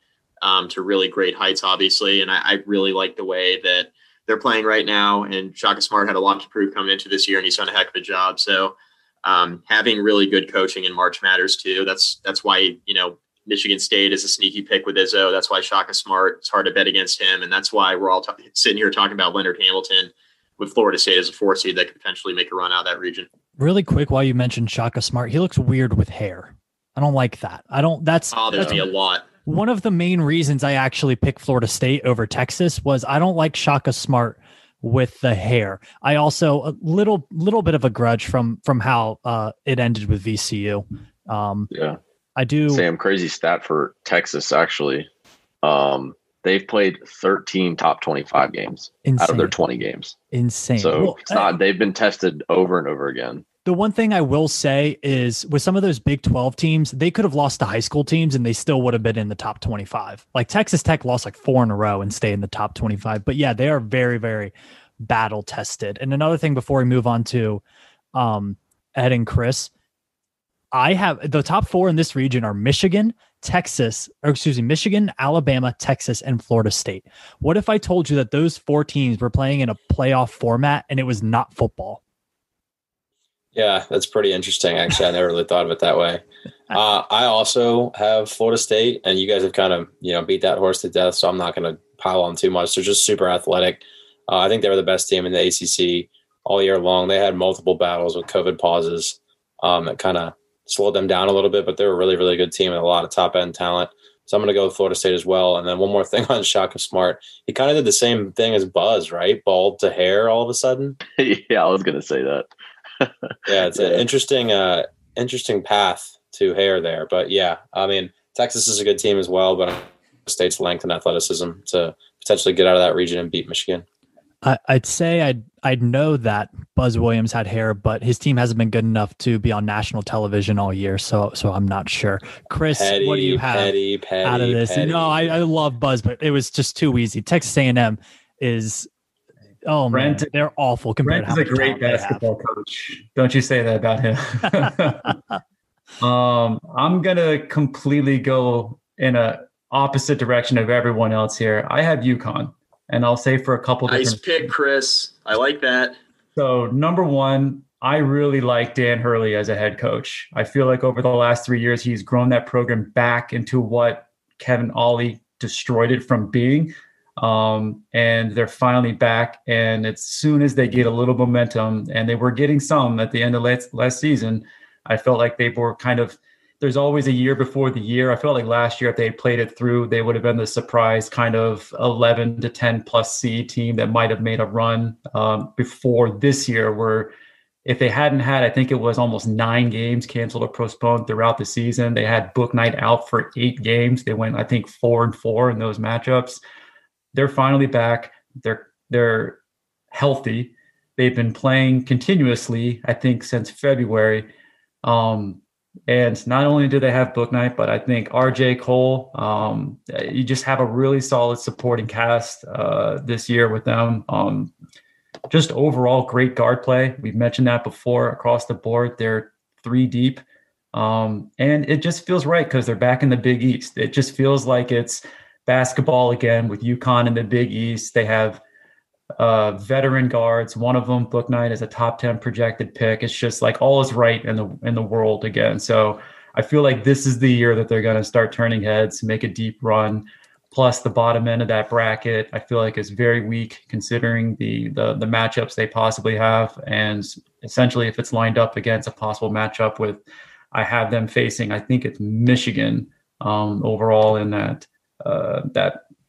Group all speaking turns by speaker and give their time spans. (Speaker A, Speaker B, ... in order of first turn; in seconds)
Speaker A: 0.4-23.3, 28.3-29.3, 153.9-156.0
Speaker B: 23.6-28.8, 29.4-41.7, 42.4-42.9, 49.0-49.6, 50.3-51.5, 53.6-67.6, 68.2-69.7, 70.7-82.0, 124.4-138.9, 139.7-142.2
Speaker C: 41.7-42.0, 42.7-45.1, 45.6-50.2, 50.8-53.4, 111.2-112.5, 113.0-114.0
Speaker D: 83.5-111.0, 113.5-123.8, 132.7-135.3
Speaker E: 139.9-140.3, 141.0-145.2, 146.0-154.5, 156.4-187.1, 187.7-196.4, 197.1-199.4, 199.9-204.3, 204.8-214.5, 215.3-220.2, 220.7-228.4, 229.2-255.8